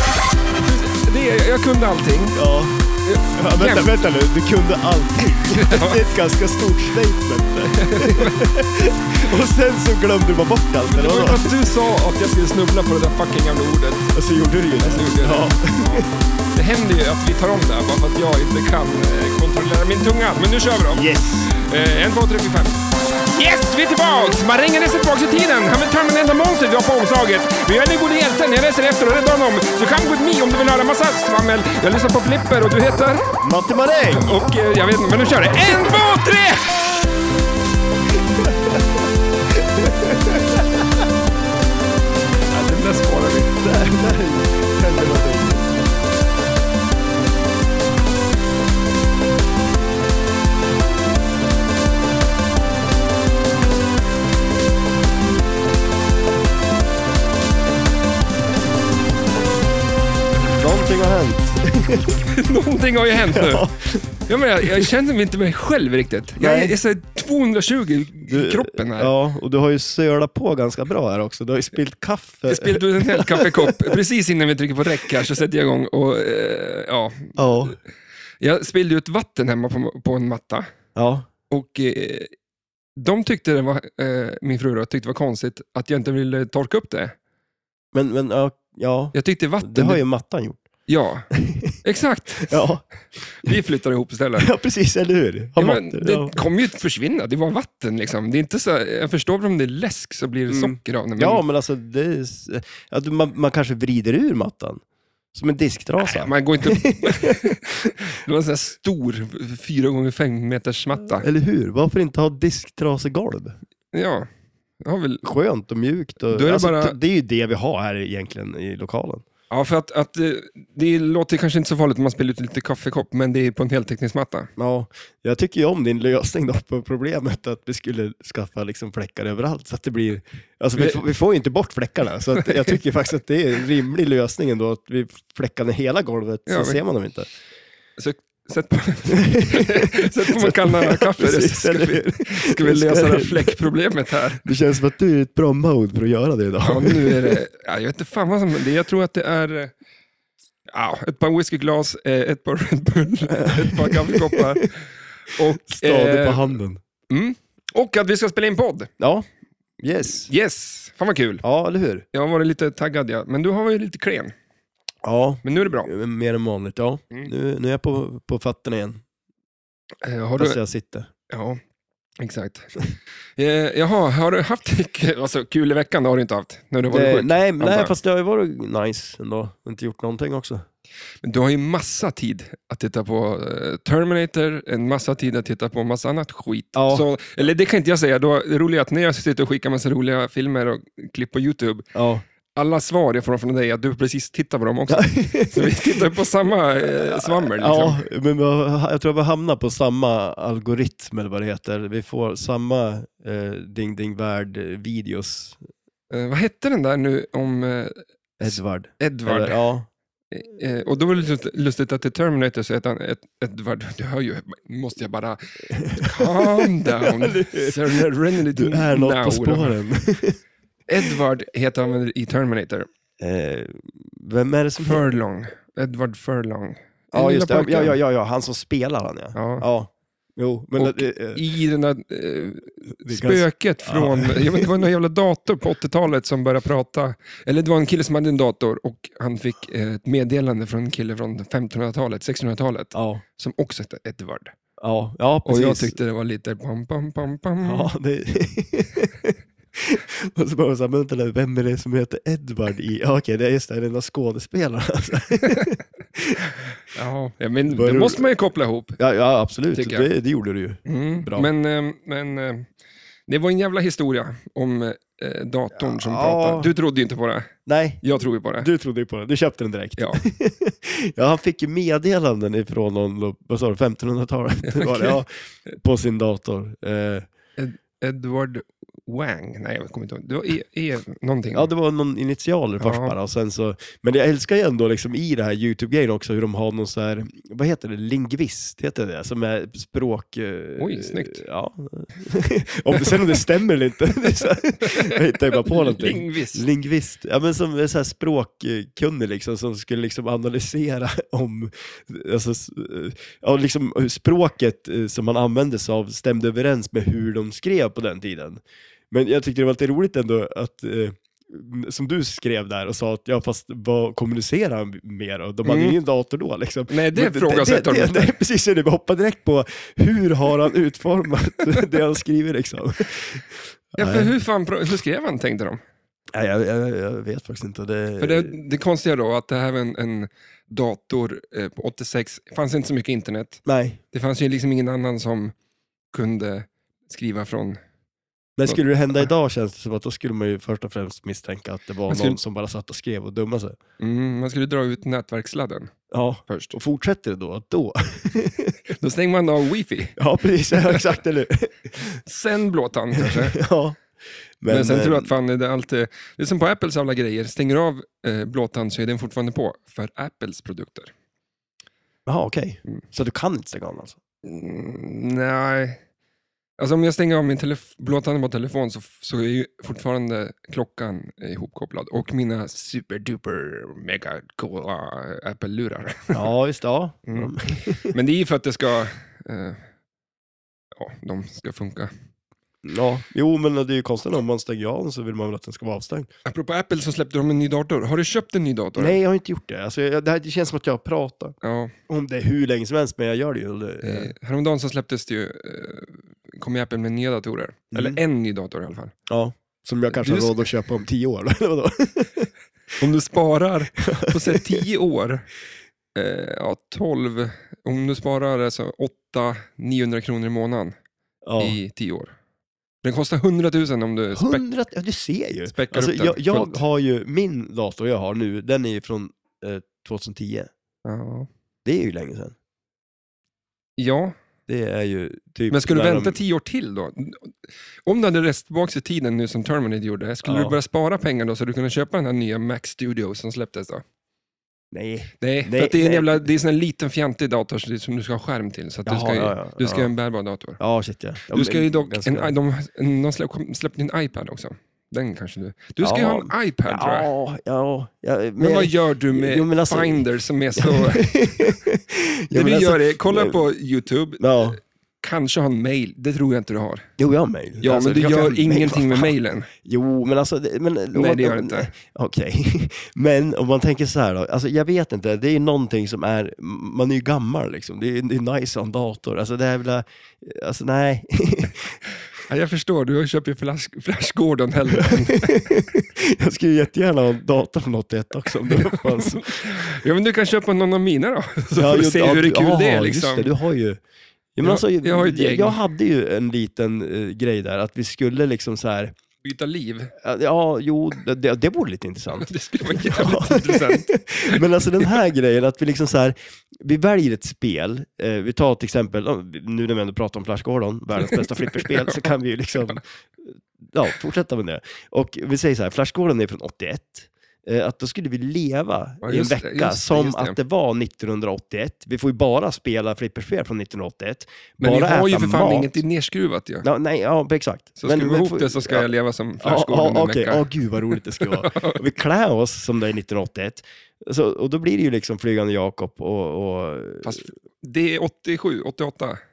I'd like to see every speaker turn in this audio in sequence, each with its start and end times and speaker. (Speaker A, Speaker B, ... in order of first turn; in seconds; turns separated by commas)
Speaker A: 0.6-2.4, Speaker B: 2.4-2.8, Speaker A: 3.0-4.0, Speaker B: 3.3-11.5, Speaker A: 5.5-6.0, Speaker A: 7.8-8.4, Speaker A: 10.8-14.1, Speaker B: 14.1-16.1, Speaker A: 14.8-33.4, Speaker B: 20.9-21.5, Speaker B: 33.4-34.3, Speaker A: 34.1-36.9, Speaker B: 38.2-41.0, Speaker A: 42.5-43.6, Speaker B: 43.6-45.9, Speaker B: 60.4-62.2, Speaker A: 62.3-63.7, Speaker B: 63.2-64.9, Speaker A: 64.2-69.1, Speaker B: 66.4-66.8, Speaker B: 68.3-73.9, Speaker A: 72.5-77.8, Speaker B: 77.4-77.8, Speaker A: 78.4-80.7, Speaker B: 81.0-81.3, Speaker A: 81.5-82.3, Speaker A: 83.0-87.2, Speaker B: 87.9-90.6, Speaker A: 89.1-90.0, Speaker A: 90.9-91.3, Speaker B: 91.3-91.8, Speaker A: 91.8-92.7, Speaker B: 92.4-92.8, Speaker A: 93.3-94.5, Speaker B: 94.4-96.4, Speaker A: 95.6-101.4, Speaker B: 100.5-104.8, Speaker B: 105.3-107.9, Speaker A: 106.0-111.3, Speaker B: 111.1-113.6, Speaker A: 113.9-114.3, Speaker A: 114.8-115.2, Speaker B: 115.2-119.2, Speaker A: 116.3-117.0, Speaker A: 119.5-124.5, Speaker B: 124.6-137.3, Speaker A: 130.8-131.0, Speaker A: 132.3-132.8, Speaker A: 136.5-136.8, Speaker A: 138.0-144.5, Speaker B: 139.1-143.6, Speaker B: 144.4-147.4, Speaker A: 146.6-149.7, Speaker A: 150.7-156.6, Speaker B: 153.3-154.6, Speaker B: 155.7-156.8, Speaker A: 157.1-158.9, Speaker B: 159.0-159.3, Speaker B: 159.8-160.3, Speaker A: 160.2-161.4, Speaker B: 161.4-162.1, Speaker A: 162.1-164.3, Speaker B: 165.0-169.0, Speaker A: 165.4-165.9, Speaker A: 170.0-170.6, Speaker B: 170.4-171.1, Speaker A: 171.3-171.6, Speaker A: 172.2-172.8, Speaker A: 173.4-177.9, Speaker B: 176.9-180.7, Speaker A: 181.2-191.9, Speaker B: 186.8-187.1, Speaker B: 191.9-192.2, Speaker A: 192.6-198.0, Speaker B: 194.9-196.2, Speaker B: 196.8-205.6, Speaker A: 206.1-209.6, Speaker B: 208.4-209.9, Speaker A: 210.3-219.7, Speaker B: 215.7-220.4, Speaker A: 220.9-222.9, Speaker B: 223.2-225.0, Speaker A: 224.8-228.0, Speaker B: 227.1-231.4, Speaker A: 229.3-229.7, Speaker A: 230.8-244.6, Speaker B: 233.0-234.8, Speaker B: 242.9-243.2, Speaker B: 244.8-245.9, Speaker A: 245.4-247.9, Speaker B: 247.6-256.4, Speaker A: 255.4-255.8, Speaker A: 256.9-259.0, Speaker B: 257.7-258.3, Speaker B: 259.0-261.5, Speaker A: 259.7-260.1, Speaker A: 260.9-262.7, Speaker A: 263.3-268.7, Speaker B: 265.8-266.7, Speaker B: 267.7-268.0, Speaker B: 268.6-275.3, Speaker A: 274.6-275.7, Speaker B: 275.8-277.3, Speaker A: 277.6-281.7, Speaker B: 281.5-324.3, Speaker A: 282.8-283.2, Speaker A: 290.8-291.4, Speaker A: 292.9-293.4, Speaker A: 294.8-296.7, Speaker A: 315.6-316.0, Speaker A: 316.9-318.3, Speaker A: 324.0-325.8, Speaker B: 326.3-328.5, Speaker A: 328.2-335.6, Speaker B: 333.6-334.0, Speaker A: 336.1-337.8, Speaker B: 338.6-343.8, Speaker A: 338.7-339.3, Speaker A: 342.1-342.4, Speaker A: 344.0-345.9, Speaker B: 346.1-348.8, Speaker A: 346.5-346.8, Speaker A: 348.9-350.2, Speaker B: 350.2-352.2, Speaker A: 350.7-351.2, Speaker A: 352.1-353.6, Speaker B: 353.2-354.1, Speaker B: 354.6-355.3, Speaker A: 354.7-361.1, Speaker B: 362.3-364.2, Speaker A: 364.4-366.0, Speaker A: 366.8-376.5, Speaker B: 376.3-378.1, Speaker A: 377.3-379.9, Speaker A: 380.9-382.1, Speaker B: 382.8-386.3, Speaker A: 386.4-389.2, Speaker B: 389.0-391.6, Speaker A: 391.6-391.9, Speaker B: 392.1-394.3, Speaker A: 394.0-399.1, Speaker B: 397.9-398.2, Speaker B: 399.3-402.5, Speaker A: 400.1-400.6, Speaker A: 403.0-405.4, Speaker B: 404.0-404.8, Speaker A: 406.1-410.9, Speaker B: 411.4-411.8, Speaker A: 411.6-412.3, Speaker A: 413.0-414.6, Speaker B: 414.3-420.7, Speaker A: 415.7-416.8, Speaker A: 421.1-421.5, Speaker B: 421.9-422.6, Speaker A: 424.0-424.3, Speaker B: 424.7-426.4, Speaker A: 425.7-434.0, Speaker B: 430.4-430.8, Speaker B: 434.9-436.4, Speaker A: 435.4-440.8, Speaker B: 439.1-440.1, Speaker B: 440.8-442.5, Speaker A: 441.5-447.3, Speaker B: 446.0-450.2, Speaker A: 448.6-451.5, Speaker B: 450.8-453.6, Speaker A: 452.5-457.1, Speaker B: 454.4-454.8, Speaker B: 457.2-471.9, Speaker A: 457.8-459.7, Speaker A: 461.1-461.9, Speaker A: 472.5-475.8, Speaker B: 475.0-479.8, Speaker A: 478.6-483.5, Speaker B: 481.8-484.0, Speaker B: 484.6-489.1, Speaker A: 484.6-485.8, Speaker A: 489.4-490.1, Speaker B: 490.2-516.0, Speaker A: 492.3-495.2, Speaker A: 501.2-502.3, Speaker A: 509.2-510.6, Speaker A: 514.8-516.9, Speaker B: 516.8-519.1, Speaker A: 518.0-522.0, Speaker B: 519.6-527.3, Speaker A: 527.2-529.4